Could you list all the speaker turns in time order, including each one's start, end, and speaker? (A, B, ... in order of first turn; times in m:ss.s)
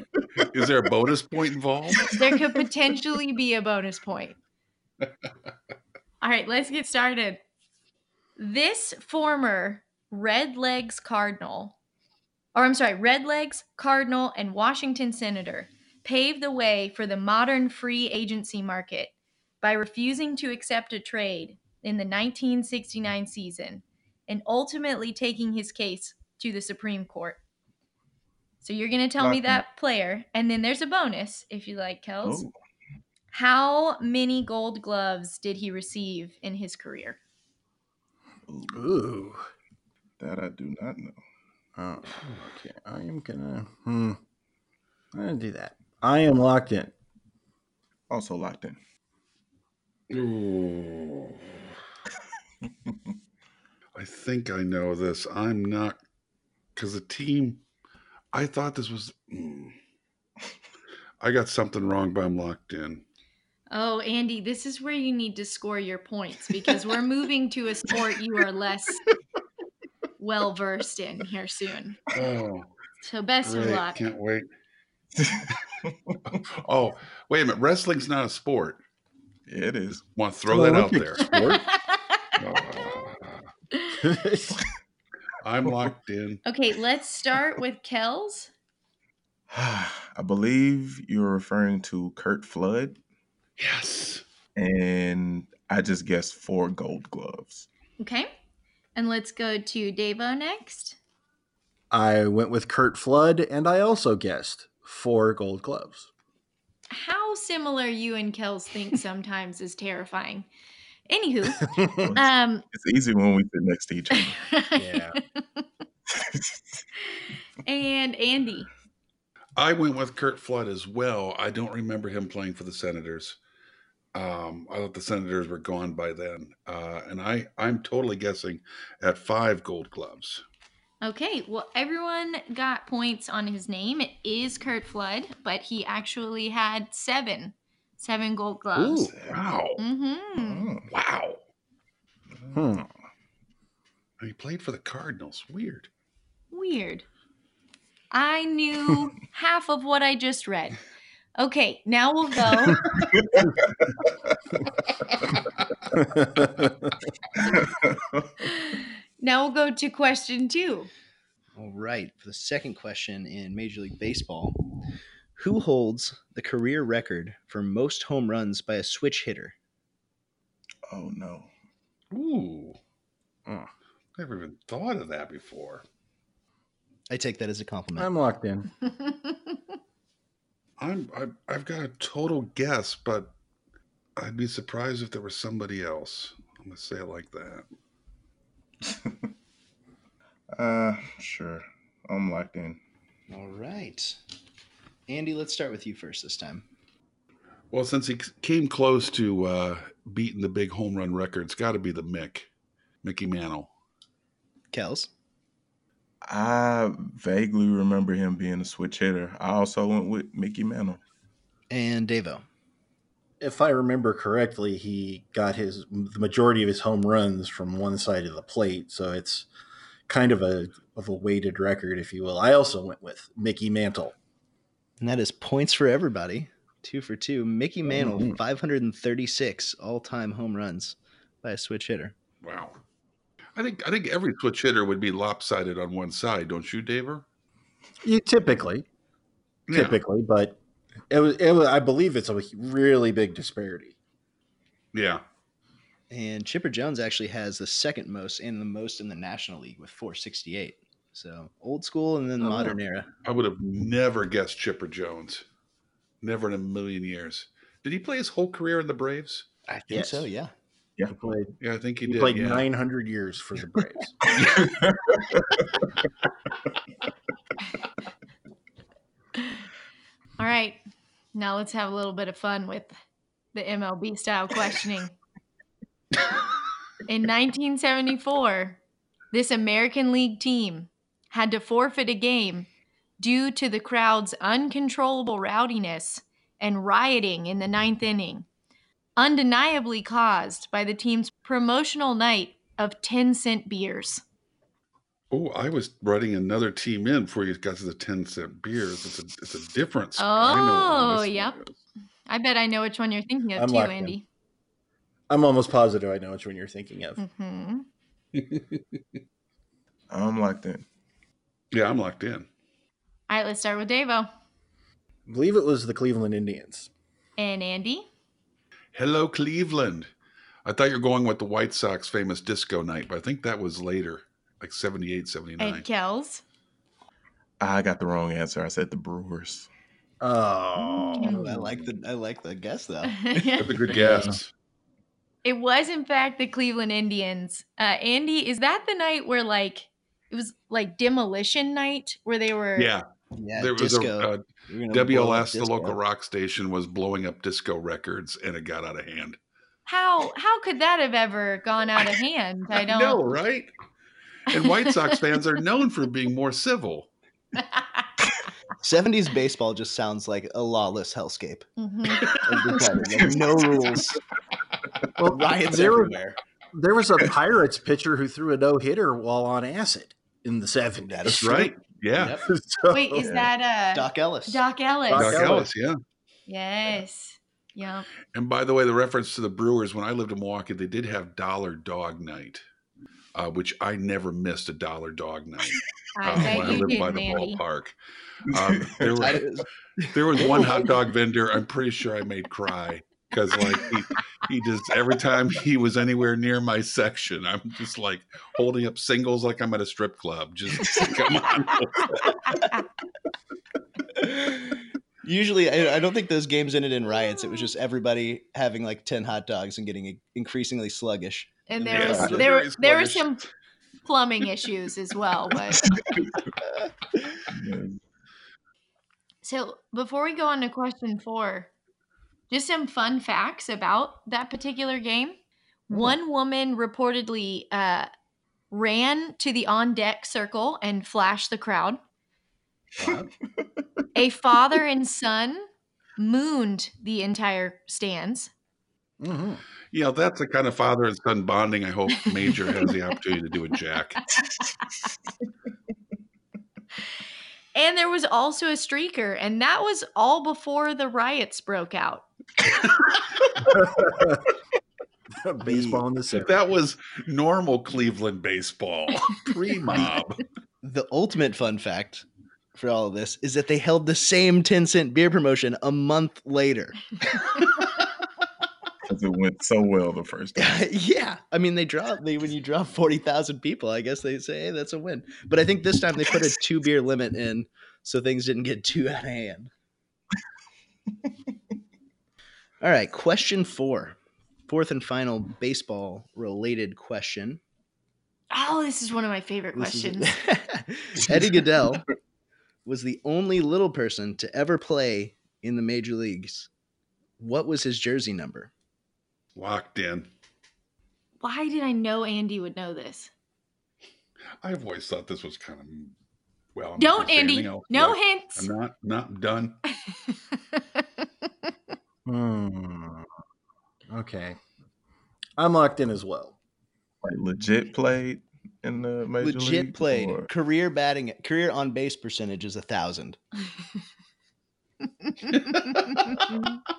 0:00.4-0:02.2 A
0:02.1-0:04.4 B
0:06.2-0:07.4 B
0:08.4-0:11.8 B
0:12.6-0:27.4 B
0:28.6-0:32.5 B
0:29.2-0:29.6 C
0:32.2-0:32.5 C
0:33.3-0:37.2 B
0:38.5-0:38.9 C
0:38.7-0:39.4 D
0:40.2-0:41.2 C
0:41.8-0:44.2 D
0:45.1-0:46.9 D
0:48.1-0:48.8 C
0:50.1-0:51.7 A
0:54.0-0:56.0 A
0:56.8-0:57.6 A
0:58.3-0:59.8 A
1:01.2-1:03.0 A
1:03.7-1:09.0 B
1:10.2-1:12.0 B
1:12.1-1:12.7 A
1:13.0-1:14.0 B
1:13.4-1:14.4 A
1:15.2-1:16.2 C
1:16.3-1:18.8 A
1:19.5-1:20.0 C
1:20.0-1:21.3 A
1:20.5-1:21.7 D
1:21.2-1:22.3 B
1:22.4-1:23.5 A
1:24.0-1:24.6 D
1:25.4-1:26.4 A
1:26.5-1:28.5 B
1:29.5-1:33.0 C
1:33.6-1:34.2 A
1:34.6-1:37.7 C
1:38.0-1:38.3 B
1:39.0-1:41.0 B
1:41.9-1:46.1 D
1:46.9-1:50.5 B
1:51.1-1:52.6 B
1:51.6-1:52.1 D
1:52.0-1:54.4 C
1:54.1-1:55.6 B
1:54.8-1:55.2 D
1:56.1-1:56.6 C
1:57.6-1:58.7 B
1:59.6-2:03.4 A
2:04.1-2:10.4 A
2:11.0-2:19.1 B
2:18.8-2:19.8 A
2:19.8-2:20.7 B
2:20.4-2:20.9 C
2:20.9-2:21.4 A
2:22.5-2:22.9 D
2:24.2-2:25.9 A
2:26.5-2:27.1 B
2:28.1-2:30.8 B
2:31.4-2:32.8 B
2:32.7-2:33.0 D
2:33.0-2:34.0 C
2:36.0-2:36.9 D
2:37.4-2:38.3 C
2:38.4-2:40.9 B
2:41.6-2:44.6 E
2:45.4-2:49.6 E
2:50.9-2:51.5 C
2:52.1-2:52.8 A
2:54.2-2:55.8 A
2:57.1-2:58.1 E
2:58.0-2:58.7 D
2:58.9-2:59.4 B
3:00.8-3:03.3 A
3:04.2-3:07.7 A
3:08.8-3:09.2 C
3:10.5-3:12.8 C
3:13.3-3:14.2 E
3:15.1-3:16.7 E
3:17.7-3:22.5 A
3:23.0-3:23.7 A
3:24.7-3:25.1 E
3:26.2-3:31.0 C
3:31.7-3:32.4 E
3:33.4-3:39.5 D
3:40.1-3:44.1 D
3:45.0-3:52.1 E
3:47.9-3:48.4 D
3:52.4-3:52.8 A
3:53.6-3:57.2 A
3:58.0-3:58.8 D
3:59.7-4:00.0 A
3:59.7-4:00.6 D
4:01.1-4:04.0 D
4:04.9-4:05.2 A
4:06.1-4:13.1 E
4:13.2-4:15.4 A
4:16.2-4:19.9 A
4:19.9-4:20.3 D
4:19.9-4:20.5 E
4:21.1-4:21.5 D
4:21.6-4:22.7 A
4:22.0-4:24.2 D
4:24.4-4:24.7 A
4:24.6-4:25.7 C
4:30.4-4:30.8 B
4:31.3-4:33.0 B
4:33.5-4:35.1 B
4:37.1-4:38.8 B
4:39.3-4:42.7 B
4:43.2-4:48.5 B
4:49.2-4:54.2 B
4:55.3-5:01.8 A
5:00.2-5:01.6 B
5:02.3-5:04.2 B
5:03.6-5:04.2 D
5:05.3-5:07.2 D
5:07.2-5:07.9 B
5:08.4-5:08.8 A
5:10.1-5:10.8 C
5:11.7-5:12.5 A
5:13.3-5:14.3 B
5:15.3-5:16.9 D
5:17.4-5:18.1 B
5:18.9-5:20.1 A
5:20.6-5:25.9 A
5:25.6-5:26.4 B
5:27.6-5:29.7 C
5:30.2-5:31.9 D
5:31.2-5:31.4 B
5:31.2-5:33.5 E
5:33.1-5:33.8 B
5:33.6-5:34.5 A
5:33.9-5:34.4 D
5:35.4-5:42.9 B
5:42.8-5:49.4 A
5:43.4-5:46.0 E
5:49.9-5:53.2 B
5:52.7-5:53.7 A
5:54.5-5:57.1 A
5:54.5-5:55.1 B
5:57.6-5:58.0 B
5:58.8-6:01.7 E
6:01.8-6:03.0 B
6:02.4-6:04.2 E
6:05.2-6:06.2 D
6:05.2-6:06.4 E
6:06.7-6:11.7 D
6:11.0-6:11.6 E
6:11.2-6:12.4 A
6:12.2-6:12.5 E
6:12.4-6:13.3 D
6:12.9-6:15.4 B
6:13.2-6:13.5 C
6:13.9-6:14.6 E
6:15.1-6:15.7 D
6:15.1-6:16.0 A
6:16.5-6:18.1 B
6:18.3-6:22.6 A
6:23.4-6:29.5 A
6:26.2-6:27.6 B
6:28.5-6:29.3 C
6:29.2-6:30.8 E
6:30.1-6:42.6 A
6:42.0-6:42.8 B
6:44.2-6:52.5 E
6:47.1-6:47.7 B
6:51.7-6:53.4 B
6:51.8-6:53.4 A
6:54.1-6:55.9 B
6:57.5-6:58.0 C
6:59.4-7:01.7 B
7:02.5-7:05.4 B
7:05.9-7:08.1 B
7:08.7-7:12.0 B
7:13.0-7:13.3 D
7:14.2-7:15.7 B
7:16.2-7:18.5 B
7:19.2-7:19.6 D
7:19.9-7:24.3 A
7:27.8-7:32.3 B
7:33.6-7:34.5 D
7:35.4-7:36.6 D
7:35.6-7:40.4 A
7:40.8-7:47.1 E
7:49.0-7:50.8 C
7:50.6-7:59.7 E
8:02.8-8:04.2 E
8:04.7-8:07.6 E
8:08.5-8:10.3 B
8:09.8-8:12.1 E
8:12.9-8:16.7 E
8:17.4-8:18.7 E
8:19.6-8:20.3 A
8:21.4-8:23.3 B
8:24.6-8:26.2 A
8:26.8-8:29.8 A
8:27.0-8:28.7 B
8:30.1-8:31.0 B
8:32.3-8:33.3 D
8:34.1-8:34.6 D
8:35.6-8:36.6 D
8:37.2-8:40.5 C
8:39.4-8:43.4 E
8:45.2-8:46.8 B